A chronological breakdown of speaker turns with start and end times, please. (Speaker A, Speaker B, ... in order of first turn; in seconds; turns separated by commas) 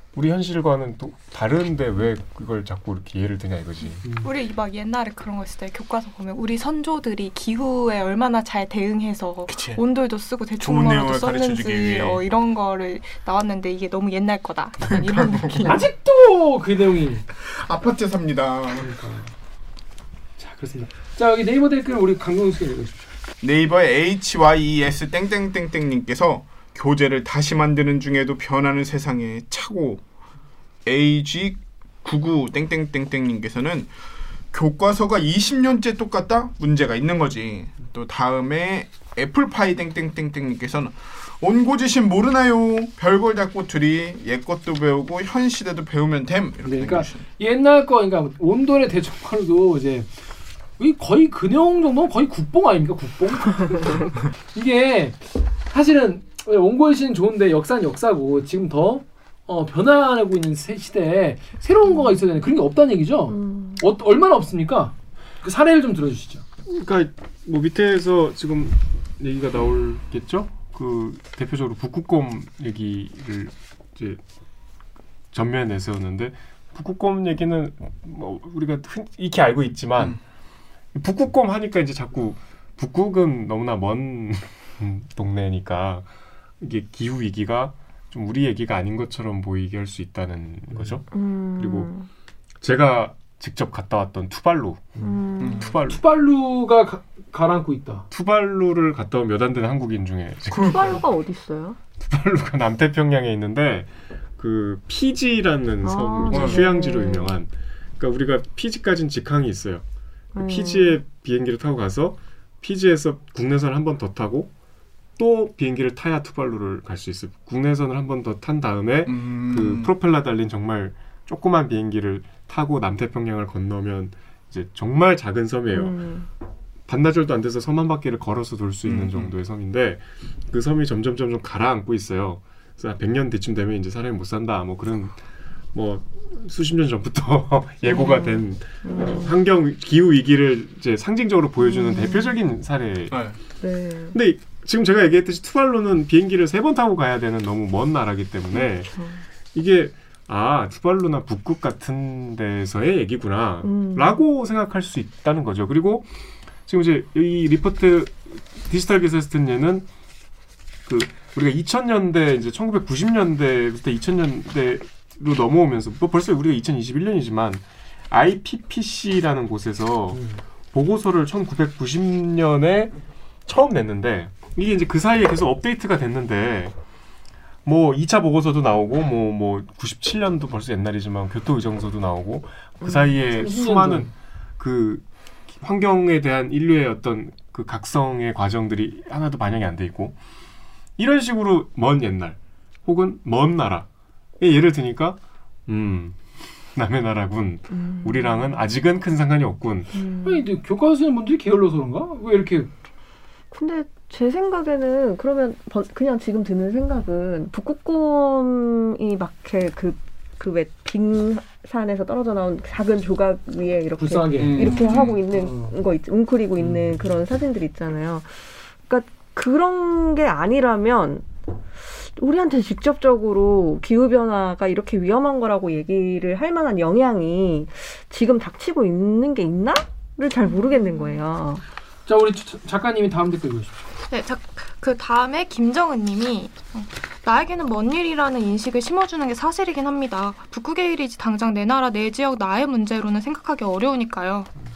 Speaker A: 0.1-4.1, Speaker B: 4.0-4.3, Speaker C: 4.2-15.8, Speaker D: 9.5-9.8, Speaker D: 10.6-12.2, Speaker D: 14.9-15.8, Speaker B: 15.6-17.2, Speaker D: 17.4-18.9, Speaker B: 18.8-19.3, Speaker B: 20.4-23.1, Speaker D: 23.4-30.1, Speaker D: 30.9-33.9, Speaker D: 34.5-47.2, Speaker B: 46.6-50.1, Speaker B: 50.8-66.4, Speaker E: 63.3-63.8, Speaker A: 66.7-74.2, Speaker A: 75.3-80.2, Speaker A: 81.0-86.1, Speaker A: 86.6-91.9, Speaker B: 90.7-91.0, Speaker E: 91.1-92.1, Speaker A: 92.6-95.0, Speaker E: 95.0-95.7, Speaker D: 95.4-95.8, Speaker A: 95.6-96.0, Speaker B: 95.8-98.1, Speaker A: 98.1-101.0, Speaker D: 100.5-101.0, Speaker E: 100.6-101.8, Speaker A: 102.0-109.8, Speaker E: 105.8-107.3, Speaker D: 106.3-106.7, Speaker E: 110.3-111.0, Speaker A: 110.4-114.5, Speaker A: 115.2-126.0, Speaker D: 119.1-119.9, Speaker E: 125.7-126.3, Speaker A: 126.9-135.2, Speaker D: 128.8-129.3, Speaker A: 135.7-143.3, Speaker E: 137.8-139.3, Speaker E: 141.6-142.4, Speaker D: 143.1-143.4, Speaker E: 143.6-144.2, Speaker A: 144.1-149.0, Speaker E: 148.5-149.2, Speaker A: 149.5-156.1, Speaker E: 153.6-154.2, Speaker A: 156.7-159.9, Speaker A: 160.9-172.9, Speaker B: 170.1-170.4, Speaker A: 173.5-176.7, Speaker A: 177.7-190.2, Speaker B: 183.3-184.1, Speaker A: 191.0-193.9, Speaker A: 194.4-200.0, Speaker E: 197.8-198.6, Speaker E: 199.9-200.4, Speaker B: 200.2-202.7, Speaker E: 203.5-221.3, Speaker B: 214.0-215.8, Speaker D: 214.4-215.2, Speaker B: 216.6-217.1, Speaker E: 221.9-231.6, Speaker C: 230.4-231.2, Speaker B: 232.1-233.9, Speaker C: 234.1-244.5